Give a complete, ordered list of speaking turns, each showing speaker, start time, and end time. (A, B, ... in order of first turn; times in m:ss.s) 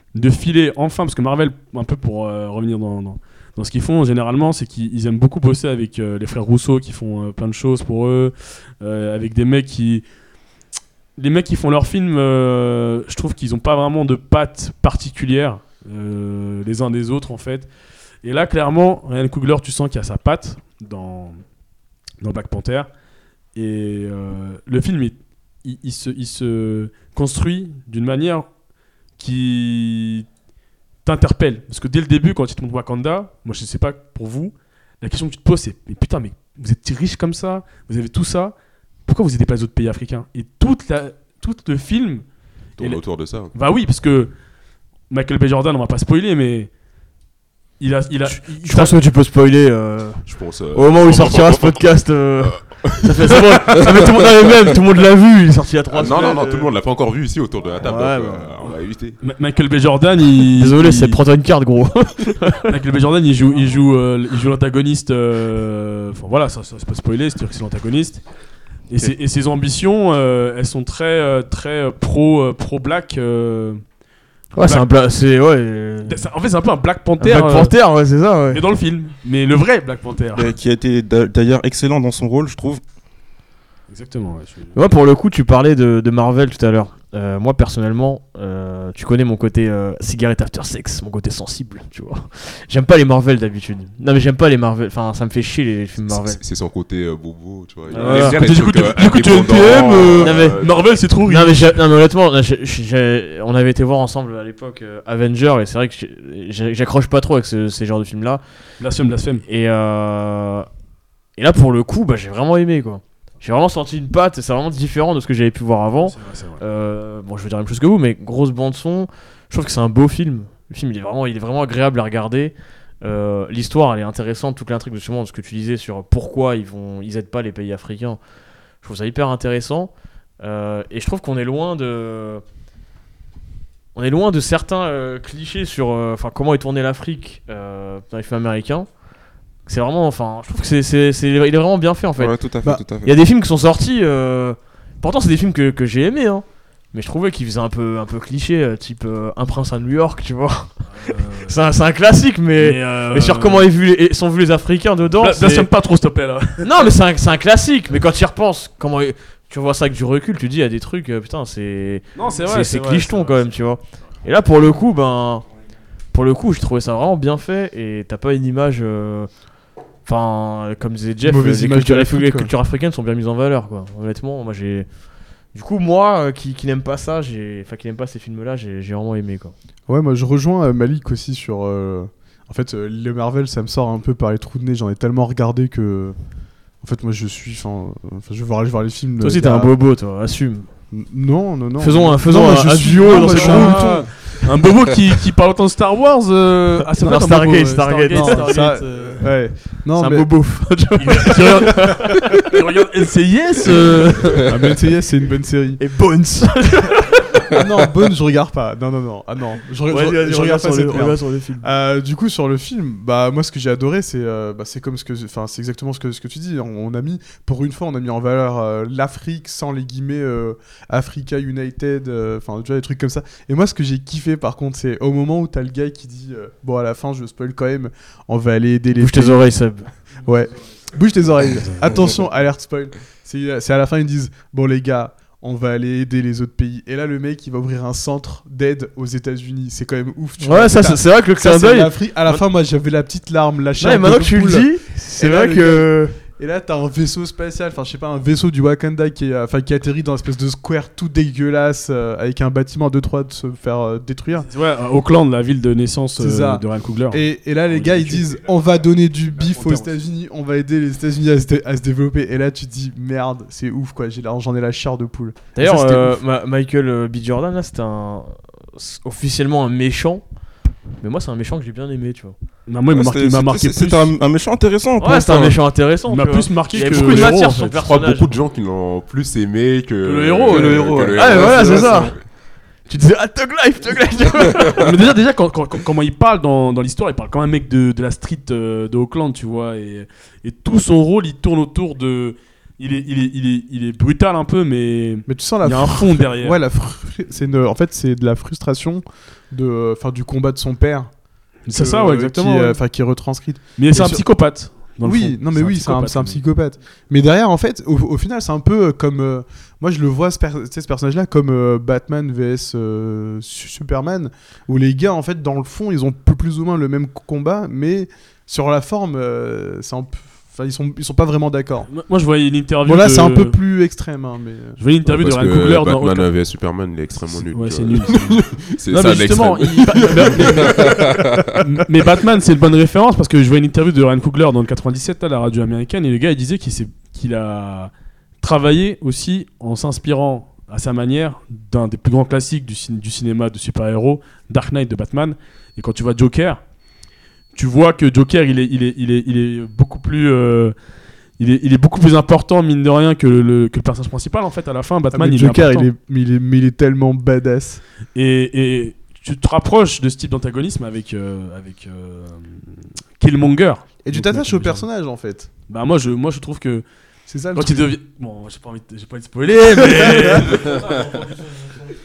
0:00.1-0:10.0 A
0:11.2-0:17.7 A
0:18.2-0:21.4 A
0:22.2-0:22.9 A
0:23.6-0:28.5 A
0:29.2-0:30.3 A
0:31.0-0:38.6 A
0:39.1-0:42.2 A
0:42.8-0:43.5 B
0:43.5-0:44.3 A
0:45.1-0:46.7 A
0:47.8-0:49.0 A
0:48.3-0:56.7 C
0:50.3-0:51.8 B
0:52.4-0:54.0 B
0:55.9-0:59.2 B
0:57.8-0:58.7 C
0:59.2-1:01.2 A
1:00.5-1:02.8 C
1:02.7-1:08.2 A
1:08.9-1:13.8 A
1:14.5-1:16.2 C
1:14.6-1:14.9 A
1:16.0-1:17.7 A
1:17.2-1:18.6 C
1:18.5-1:20.5 A
1:20.4-1:22.8 D
1:23.9-1:24.8 A
1:24.7-1:36.4 C
1:36.1-1:40.8 B
1:37.9-1:38.6 C
1:37.9-1:41.7 A
1:40.1-1:40.7 C
1:41.3-1:48.4 C
1:48.8-1:49.4 A
1:49.5-1:50.7 C
1:51.4-2:08.2 C
1:56.0-1:56.6 A
2:08.8-2:12.4 C
2:14.0-2:18.9 C
2:19.7-2:22.4 C
2:22.2-2:23.1 D
2:23.0-2:35.7 C
2:31.0-2:31.6 A
2:32.6-2:33.7 A
2:35.2-2:36.9 A
2:36.6-2:45.5 C
2:42.2-2:43.4 A
2:46.1-2:49.3 C
2:50.1-2:54.9 C
2:51.2-2:52.5 E
2:55.5-2:59.5 C
2:59.9-3:06.2 E
3:06.8-3:09.7 E
3:09.2-3:10.7 C
3:10.9-3:14.1 E
3:11.8-3:14.0 C
3:13.1-3:19.2 A
3:17.0-3:19.3 C
3:18.1-3:20.3 E
3:20.0-3:22.6 C
3:21.0-3:24.6 A
3:24.4-3:25.8 E
3:25.8-3:27.5 C
3:27.5-3:49.5 E
3:29.9-3:31.7 C
3:49.0-3:49.9 C
3:50.2-4:14.5 E
4:00.4-4:02.4 C
4:03.8-4:06.2 C
4:14.4-4:18.3 A
4:16.2-4:26.2 E
4:17.8-4:19.3 B
4:19.5-4:19.9 A
4:25.6-4:30.2 C
4:31.0-4:32.4 C
4:32.7-4:34.2 A
4:32.9-4:35.6 D
4:35.0-4:38.3 C
4:36.1-4:37.8 A
4:36.8-4:42.2 B
4:40.0-4:41.0 A
4:40.5-4:42.1 D
4:41.1-4:42.1 C
4:42.9-4:44.9 C
4:44.8-4:56.6 A
4:55.3-5:01.1 E
5:01.7-5:02.8 A
5:01.7-5:04.2 E
5:03.8-5:06.4 A
5:05.0-5:21.9 E
5:21.9-5:23.6 A
5:22.8-5:24.8 E
5:24.8-5:26.3 A
5:25.1-5:31.5 B
5:27.5-5:46.6 A
5:30.7-5:31.4 D
5:47.6-5:50.8 A
5:51.4-5:55.9 A
5:55.1-5:57.8 E
5:58.2-6:04.8 A
6:04.0-6:05.5 E
6:05.7-6:06.8 A
6:07.3-6:07.9 E
6:07.5-6:11.7 A
6:10.0-6:10.6 E